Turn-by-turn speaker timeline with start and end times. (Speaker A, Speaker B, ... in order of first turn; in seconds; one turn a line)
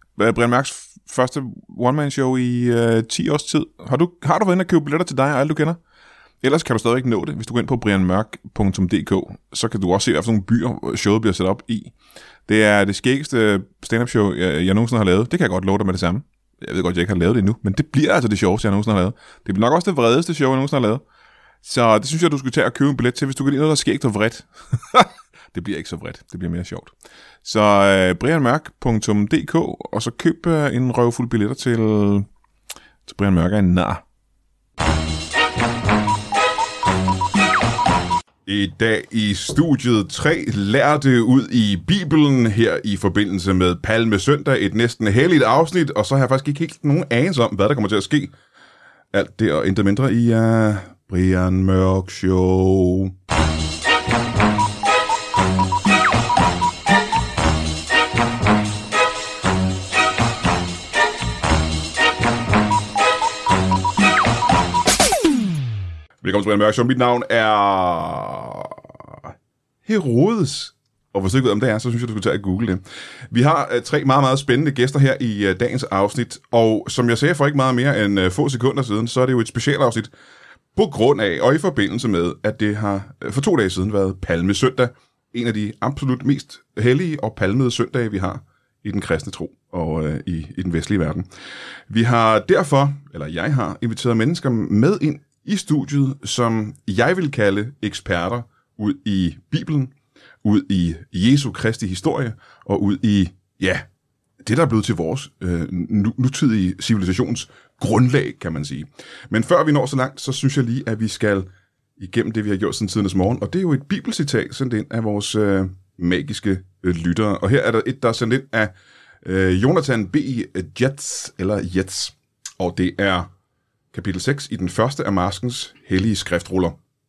Speaker A: 0.1-5.8
Speaker A: 6.4-11.9
Speaker A: 12.4-21.0
Speaker A: 21.6-26.9
Speaker A: 27.4-32.3
Speaker A: 33.0-34.0
Speaker A: 38.5-48.3
Speaker A: 49.1-53.1
Speaker A: 66.2-68.8
Speaker A: 69.8-80.1
Speaker A: 80.7-91.3
Speaker A: 91.9-99.9
Speaker A: 100.4-103.8
Speaker A: 104.4-123.3
Speaker A: 123.9-126.8